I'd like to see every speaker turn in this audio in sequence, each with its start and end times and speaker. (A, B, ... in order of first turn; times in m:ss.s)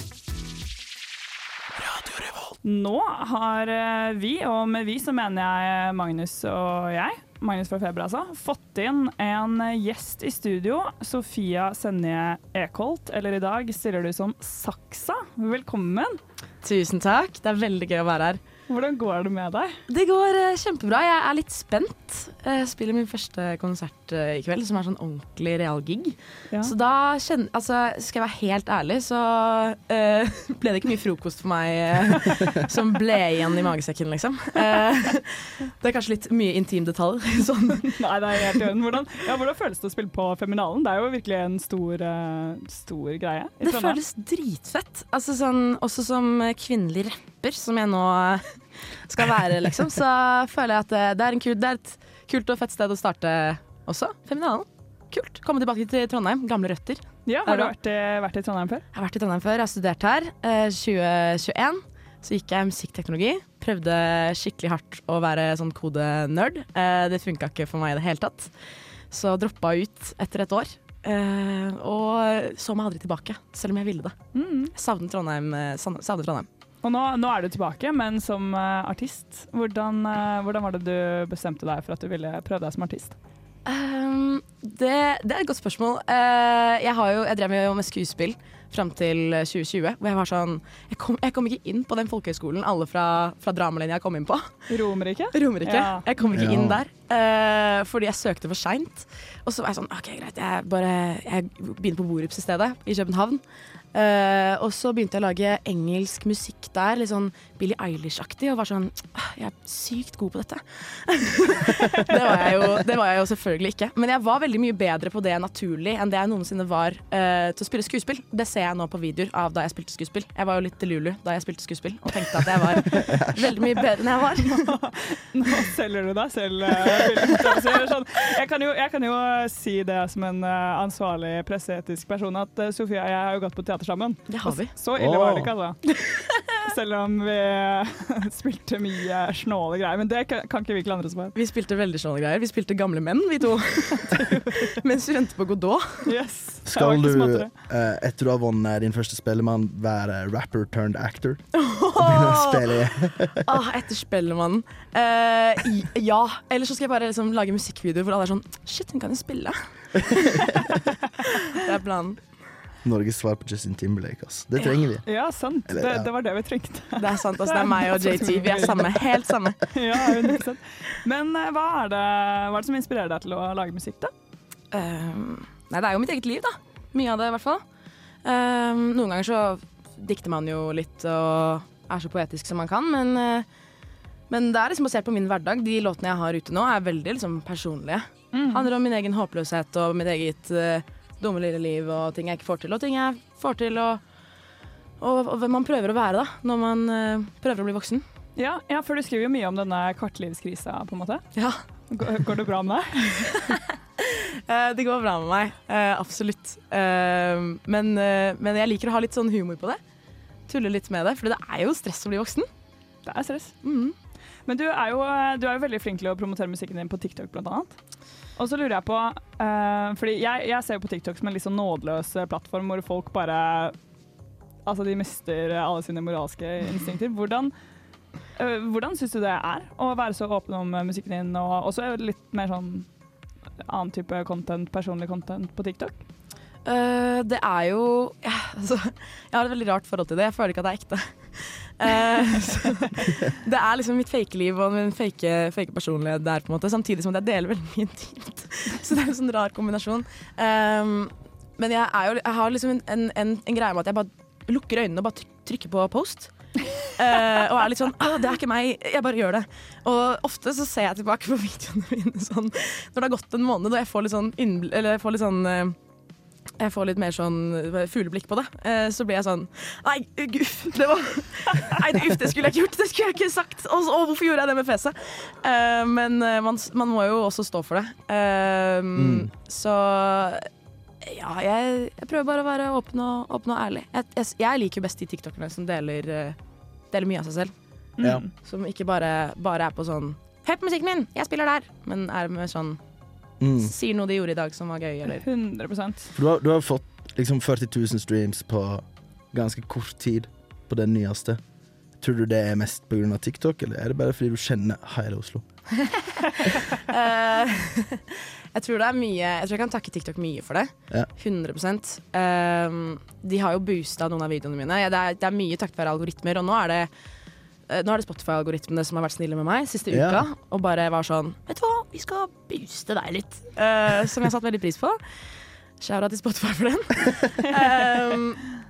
0:02.6-0:16.2 A
0:16.6-0:18.4 B
0:18.7-0:19.8 A
0:19.9-0:38.0 B
0:37.7-0:44.0 A
0:43.6-0:57.7 B
0:57.2-0:58.8 A
0:58.9-1:08.5 B
1:09.1-1:14.2 B
1:14.3-1:14.7 A
1:14.7-1:16.5 B
1:16.8-1:23.1 A
1:23.6-1:34.7 B
1:34.7-1:36.1 A
1:35.3-1:43.4 B
1:36.3-1:36.8 C
1:43.9-2:04.8 B
2:02.8-2:03.3 C
2:04.5-2:15.8 A
2:14.3-2:14.7 B
2:14.9-2:15.5 C
2:16.4-2:21.3 A
2:21.3-2:26.1 B
2:24.1-2:24.7 A
2:26.0-2:27.5 A
2:26.6-2:33.4 C
2:31.5-2:32.8 B
2:33.4-2:42.2 B
2:40.1-2:40.5 C
2:42.8-2:45.1 C
2:45.0-2:54.1 A
2:45.7-2:46.1 C
2:47.0-2:50.3 B
2:54.7-2:57.6 B
2:58.2-3:03.5 B
3:04.3-3:14.0 B
3:08.3-3:08.7 A
3:15.0-3:18.0 B
3:18.4-3:21.2 A
3:21.9-3:23.5 A
3:23.4-3:29.8 B
3:30.5-3:32.4 B
3:33.0-3:33.5 A
3:33.6-3:33.9 B
3:34.4-3:37.8 A
3:38.4-3:43.8 A
3:44.6-3:47.5 A
3:48.3-3:52.9 A
3:53.6-3:56.0 A
3:56.6-4:16.3 B
4:16.8-4:25.8 B
4:26.6-4:40.5 B
4:39.0-4:39.3 C
4:41.0-4:46.4 B
4:46.9-4:47.5 B
4:48.0-4:48.3 A
4:48.4-4:52.8 B
4:53.4-4:53.7 C
4:53.6-4:55.2 B
4:55.1-4:56.1 A
4:56.1-5:01.4 C
5:02.0-5:05.4 C
5:06.5-5:16.9 B
5:17.7-5:25.0 B
5:19.9-5:20.2 C
5:25.8-5:28.4 B